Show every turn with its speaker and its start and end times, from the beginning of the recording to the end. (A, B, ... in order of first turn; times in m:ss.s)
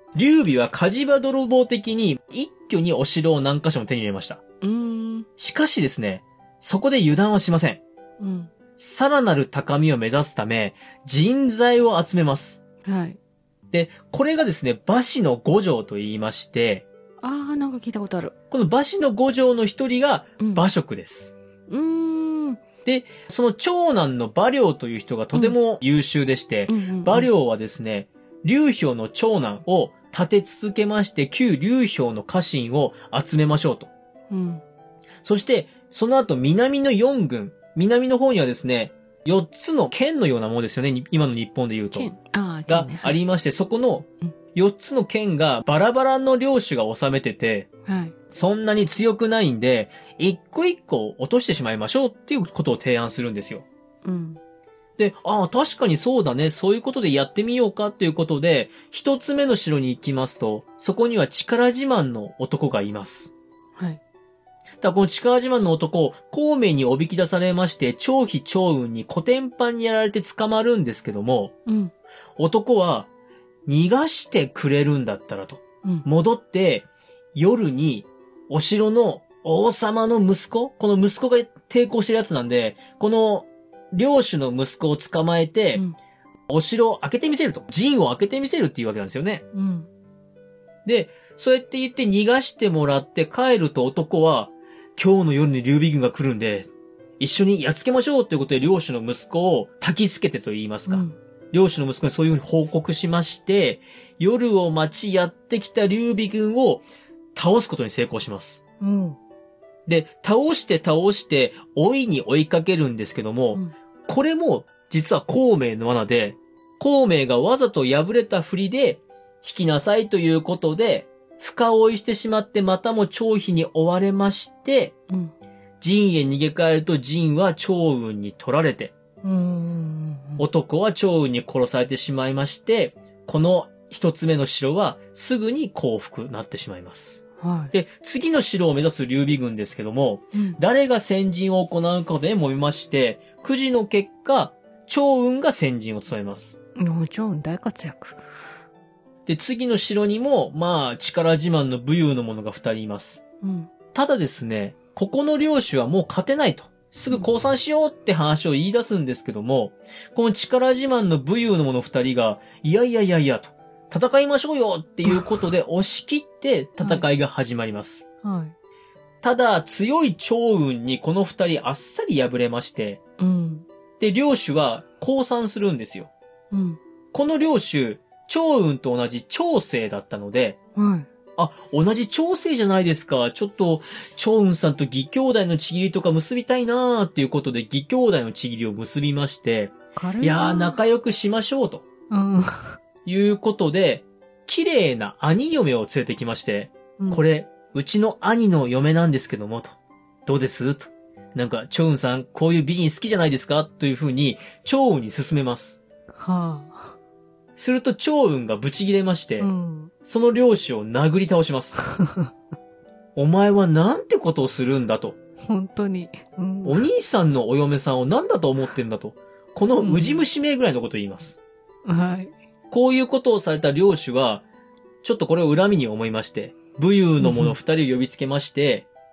0:00.2-0:04.4 A
0:04.6-0:05.3 B
0:05.4-0:07.8 A
0:08.2-0:08.5 B
0:08.8-0:12.6 A
0:12.8-0:13.2 B
0:13.7-0:16.8 A
0:17.2-0:18.3 B
0:18.5-0:21.3 A
0:20.4-0:20.6 B
0:21.7-0:22.6 B
0:22.8-0:33.9 A
0:26.7-0:27.3 B
0:34.3-0:34.6 B
0:35.2-0:42.1 A
0:41.9-0:43.2 B
0:42.7-0:47.7 A
0:47.9-0:48.1 B
0:48.3-0:53.7 A
0:54.0-0:54.4 B
0:55.0-1:03.3 A
1:03.8-1:04.0 B
1:04.8-1:11.5 A
1:11.7-1:11.9 B
1:12.4-1:13.1 A
1:13.7-1:25.8 A
1:26.5-1:29.4 A
1:29.5-1:29.9 B
1:30.9-1:48.6 A
1:40.9-1:41.2 B
1:48.8-1:49.2 B
1:49.9-2:05.0 A
2:05.8-2:08.9 A
2:09.2-2:10.4 B
2:10.4-2:26.6 A
2:17.4-2:17.7 B
2:26.8-2:28.2 B
2:29.3-2:33.2 A
2:33.4-2:33.7 B
2:33.9-2:48.0 A
2:46.8-2:47.1 B
2:48.2-2:48.6 B
2:49.2-2:53.0 A
2:53.2-2:53.7 B
2:54.0-2:56.1 A
2:56.5-2:56.8 B
2:57.1-3:00.6 A
3:00.8-3:01.1 B
3:01.4-3:11.9 A
3:10.0-3:10.8 B
3:12.1-3:12.8 B
3:13.0-3:25.8 A
3:26.2-3:27.0 B
3:27.6-3:29.5 A
3:29.4-3:29.9 B
3:30.0-3:31.8 A
3:31.8-3:32.3 B
3:33.2-3:35.2 A
3:35.5-3:36.9 B
3:36.6-3:41.4 A
3:39.8-3:40.3 B
3:41.8-3:42.3 B
3:42.7-3:44.4 A
3:45.0-3:48.9 A
3:47.2-3:47.6 B